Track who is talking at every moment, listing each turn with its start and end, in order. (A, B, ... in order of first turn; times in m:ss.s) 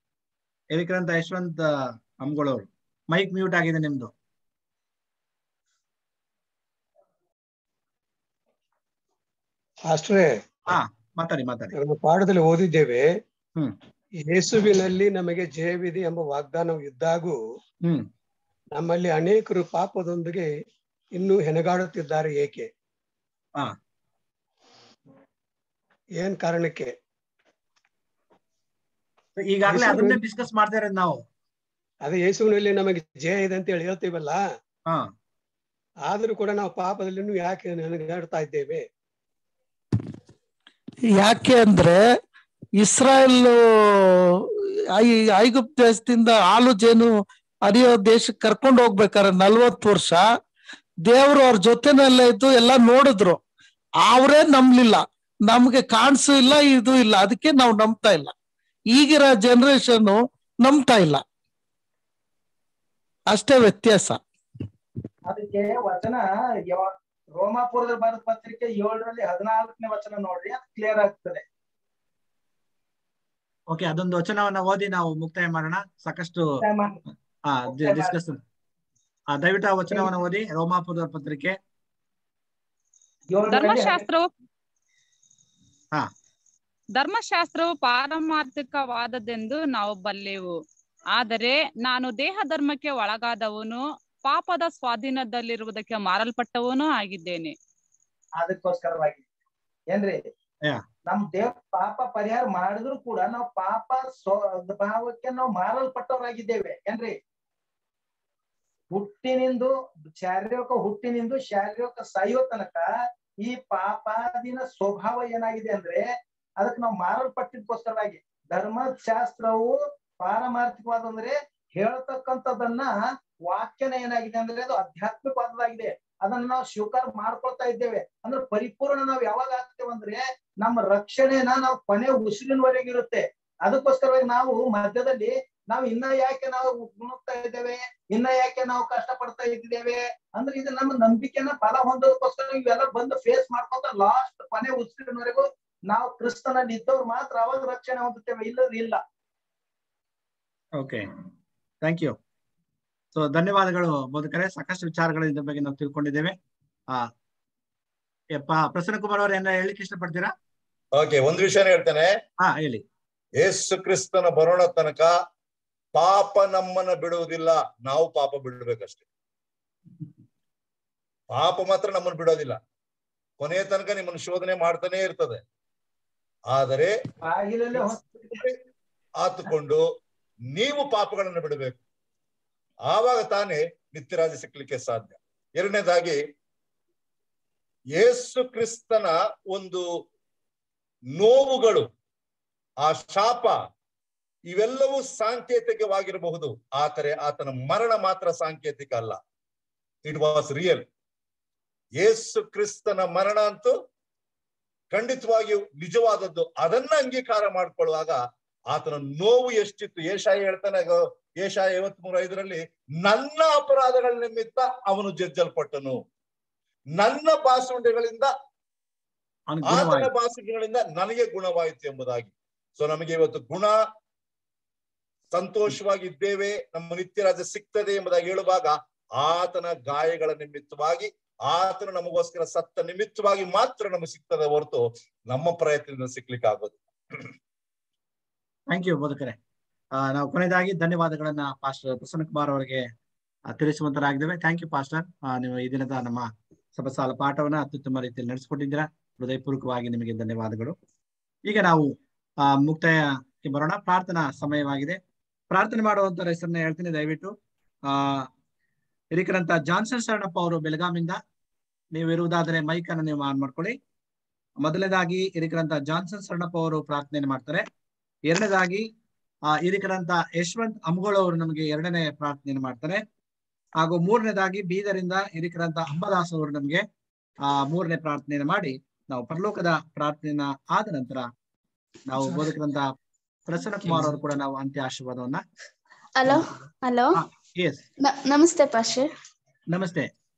0:00.7-0:04.1 A
0:09.9-0:10.5 B
0:10.7-0:11.7 A
0:11.7-0:13.1 B
0:14.2-0:17.4 B
0:18.7-0:20.5 B
0:21.1-0:22.7 B
0:26.2-0:26.9 B
0:29.4-0:31.2 A
0:29.7-0:30.2 B
0:32.0-0:34.4 B
0:36.1-0:38.8 B
0:41.1-0:42.0 C
0:42.8-0:44.3 C
0:44.9-0:47.1 C
0:47.6-0:50.2 C
0:51.0-0:53.4 C
0:54.0-0:58.3 C
0:58.9-1:01.2 C
1:03.3-1:04.2 C
1:05.3-1:11.4 D
1:13.7-1:16.5 A
1:16.6-1:17.0 D
1:17.4-1:18.4 A
1:17.7-1:18.2 D
1:19.3-1:21.6 A
1:23.3-1:24.0 D
1:23.5-1:24.3 E
1:27.0-1:30.5 E
1:31.1-1:37.5 E
1:38.4-1:39.2 D
1:39.9-1:40.2 D
1:41.1-1:47.2 D
1:48.9-1:52.9 D
1:53.4-1:56.1 D
1:56.6-2:02.9 D
2:03.5-2:29.0 D
2:30.8-2:31.1 A
2:31.8-2:32.2 A
2:33.1-2:36.4 A
2:38.3-2:40.3 A
2:40.9-2:42.1 F
2:42.4-2:42.8 A
2:43.4-2:45.1 F
2:45.9-2:49.0 F
2:51.3-2:52.6 F
2:53.4-2:55.4 F
2:56.5-2:57.0 F
2:57.2-2:58.4 D
2:59.2-2:59.8 F
3:00.5-3:01.8 F
3:02.9-3:06.2 F
3:07.9-3:09.8 F
3:11.1-3:11.9 F
3:12.8-3:13.6 F
3:14.5-3:19.2 F
3:20.0-3:20.9 F
3:22.0-3:23.7 F
3:24.9-3:28.2 F
3:28.7-3:36.0 F
3:37.0-3:38.3 F
3:39.5-3:40.1 A
3:39.6-3:43.8 F
3:45.3-3:56.8 F
3:58.7-3:59.4 A
4:00.0-4:02.9 A
4:03.5-4:10.8 A
4:11.5-4:15.0 A
4:15.5-4:17.3 A
4:17.9-4:18.3 A
4:19.1-4:21.2 A
4:21.9-4:23.8 A
4:24.6-4:27.7 A
4:28.3-4:28.9 A
4:29.5-4:33.0 A
4:33.8-4:36.8 A
4:37.4-4:41.3 A
4:42.1-4:42.9 A
4:43.5-4:45.4 A
4:46.2-4:47.2 G
4:47.2-4:47.8 A
4:48.0-4:49.0 G
4:49.7-4:50.1 A